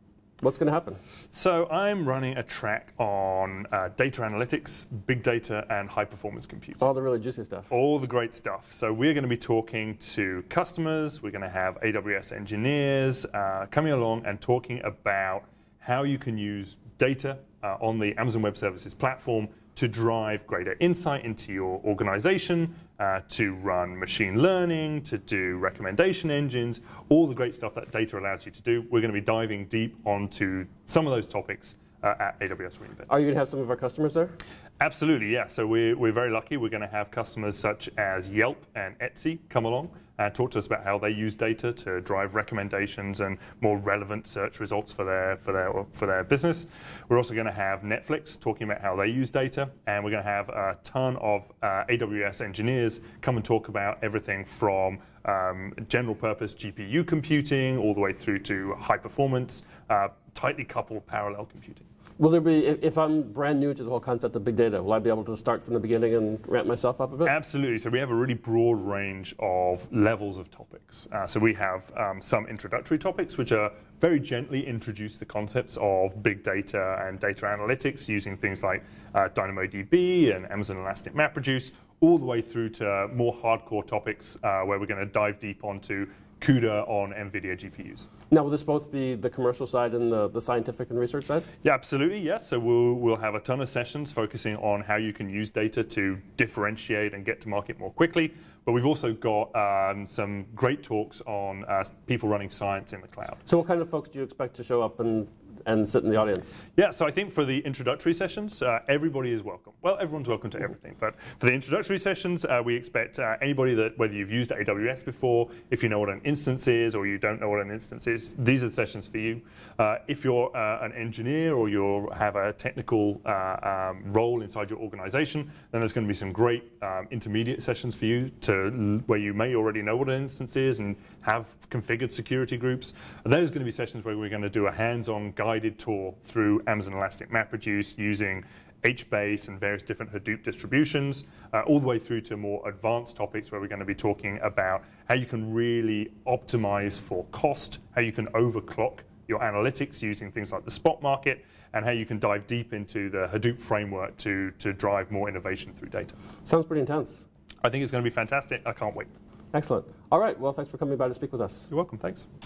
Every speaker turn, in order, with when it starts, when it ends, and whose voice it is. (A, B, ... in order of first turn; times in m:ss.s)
0:00.4-0:01.0 A
0:01.3-0:06.9 B
0:06.8-0:07.7 A
0:07.7-0:33.1 B
0:33.1-0:34.4 A
0:34.8-1:01.8 B
1:02.2-1:07.3 A
1:07.2-1:28.1 B
1:28.3-1:31.5 A
1:31.6-1:43.4 B
1:43.5-1:46.6 A
1:46.8-2:36.2 B
2:36.4-2:37.3 A
2:37.6-2:39.1 B
2:39.5-2:41.7 A
2:41.7-2:42.3 B